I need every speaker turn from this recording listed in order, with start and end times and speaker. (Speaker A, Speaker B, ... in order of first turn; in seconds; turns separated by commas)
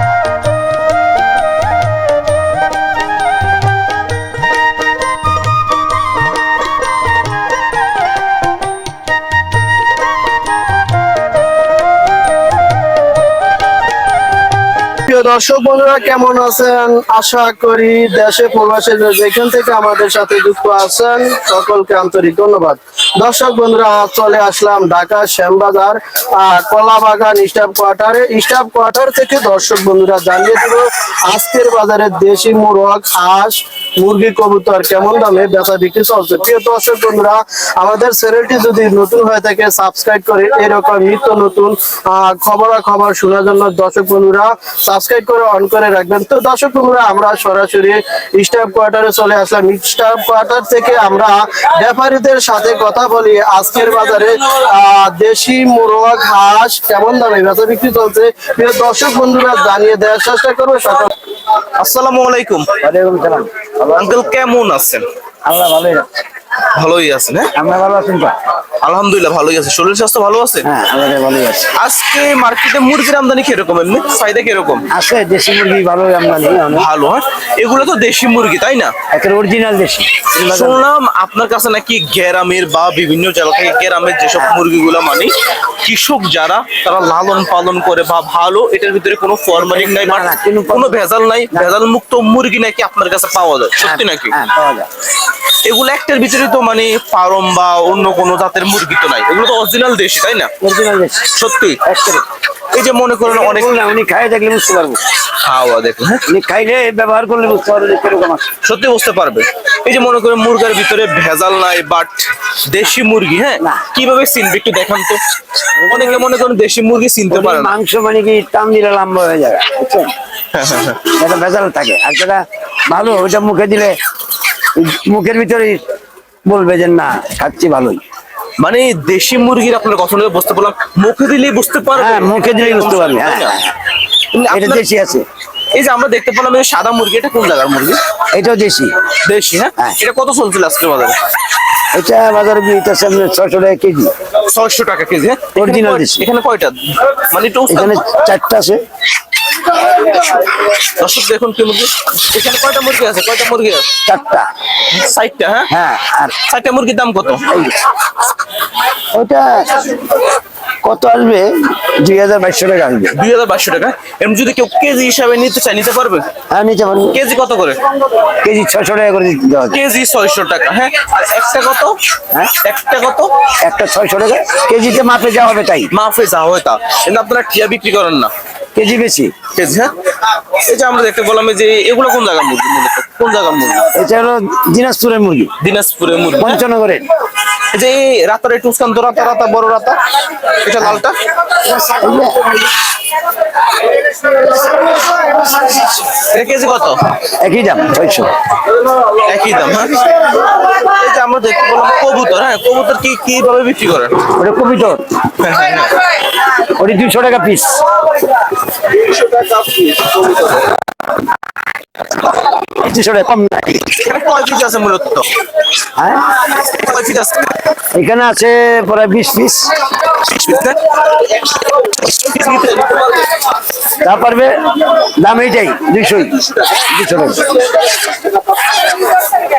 Speaker A: 15.1-61.1, Speaker B: 61.8-62.7, Speaker C: 62.8-64.3, Speaker B: 63.9-65.0, Speaker C: 65.4-66.0, Speaker B: 66.7-67.5, Speaker C: 67.5-68.3, Speaker B: 68.8-70.7, Speaker C: 70.6-71.7, Speaker B: 71.7-74.8, Speaker C: 74.9-76.9, Speaker B: 76.7-79.0, Speaker C: 79.1-80.8, Speaker B: 80.4-94.3, Speaker C: 89.5-91.7, Speaker C: 93.8-94.9, Speaker B: 95.6-100.5, Speaker C: 100.6-101.3, Speaker B: 101.3-101.8, Speaker C: 101.8-102.2, Speaker B: 102.7-103.8, Speaker C: 103.2-105.0, Speaker B: 105.4-106.2, Speaker C: 106.3-108.5, Speaker B: 108.6-115.2, Speaker C: 113.6-113.9, Speaker B: 115.8-117.7, Speaker C: 117.3-120.1, Speaker B: 120.5-121.0, Speaker C: 121.0-124.0, Speaker C: 124.7-125.8, Speaker C: 126.5-128.0, Speaker B: 128.6-133.6, Speaker C: 131.9-133.7, Speaker B: 134.3-134.8, Speaker C: 134.5-135.2, Speaker B: 135.7-138.0, Speaker C: 138.3-138.9, Speaker B: 139.2-141.2, Speaker C: 141.9-144.1, Speaker B: 144.4-148.1, Speaker C: 145.5-146.3, Speaker C: 147.7-148.8, Speaker B: 150.8-153.9, Speaker C: 154.0-154.5, Speaker B: 154.9-155.7, Speaker C: 155.7-156.4, Speaker B: 156.4-157.4, Speaker C: 157.5-157.9, Speaker C: 159.1-160.0, Speaker C: 160.8-163.2, Speaker B: 163.1-166.2, Speaker C: 166.5-167.2, Speaker B: 167.1-167.8, Speaker C: 168.4-169.8, Speaker B: 169.7-172.0, Speaker B: 172.6-173.3, Speaker C: 173.6-175.9, Speaker B: 175.9-178.3, Speaker C: 178.7-179.3, Speaker B: 179.5-179.9, Speaker B: 180.6-183.9, Speaker C: 183.9-185.5, Speaker B: 185.6-186.6, Speaker C: 186.4-187.0, Speaker B: 187.7-190.0, Speaker B: 190.6-191.2, Speaker C: 191.6-192.6, Speaker B: 196.1-197.0, Speaker C: 197.4-198.3, Speaker B: 199.1-200.1, Speaker B: 200.6-204.2, Speaker C: 204.2-205.1, Speaker B: 205.4-205.9, Speaker C: 206.5-207.8, Speaker B: 208.9-210.7, Speaker C: 212.6-213.9, Speaker B: 213.9-215.3, Speaker C: 215.9-216.3, Speaker B: 216.6-217.5, Speaker C: 217.9-219.8, Speaker B: 220.1-223.3, Speaker C: 224.0-227.6, Speaker B: 226.3-226.8, Speaker B: 228.0-228.8